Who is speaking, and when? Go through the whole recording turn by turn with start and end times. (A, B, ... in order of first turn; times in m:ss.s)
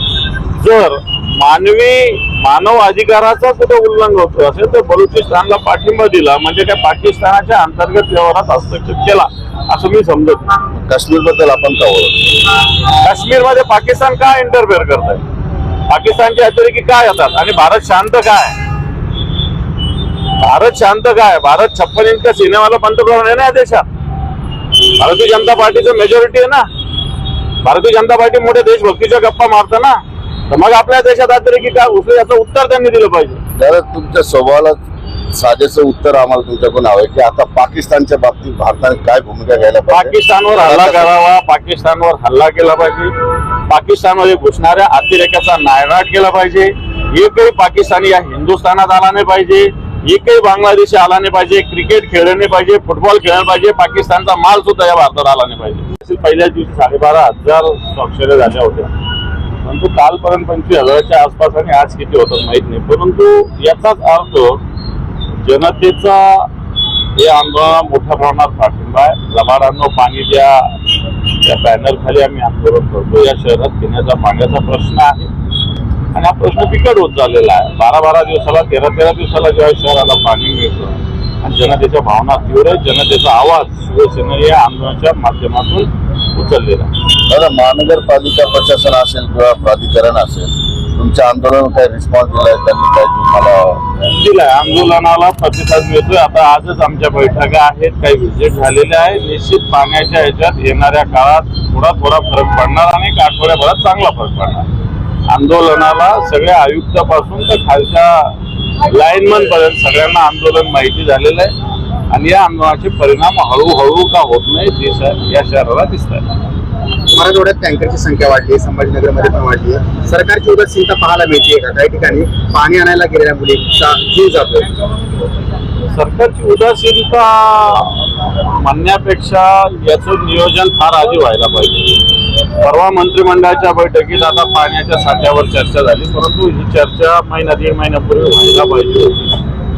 0:00.4-0:10.5 A
0:10.7-0:12.2 B
0:12.9-0:15.2 A
0:15.9-0:18.6 A
0:20.4-0:23.8 A
0:24.8-0:26.7 A
0:27.6-0:33.4 A
0:33.5-0:34.8 B
0:35.3-0:41.1 B
0:39.9-0:43.1 A
0:43.7-0:58.9 A
0:59.6-1:04.6 A
1:05.3-1:06.5 A
1:07.2-1:15.3 A
1:16.1-1:26.9 A
1:27.3-1:33.8 B
1:34.0-1:44.7 A
1:45.3-1:51.5 A
1:52.1-1:56.2 A
1:57.1-2:04.7 C
2:05.9-2:19.4 A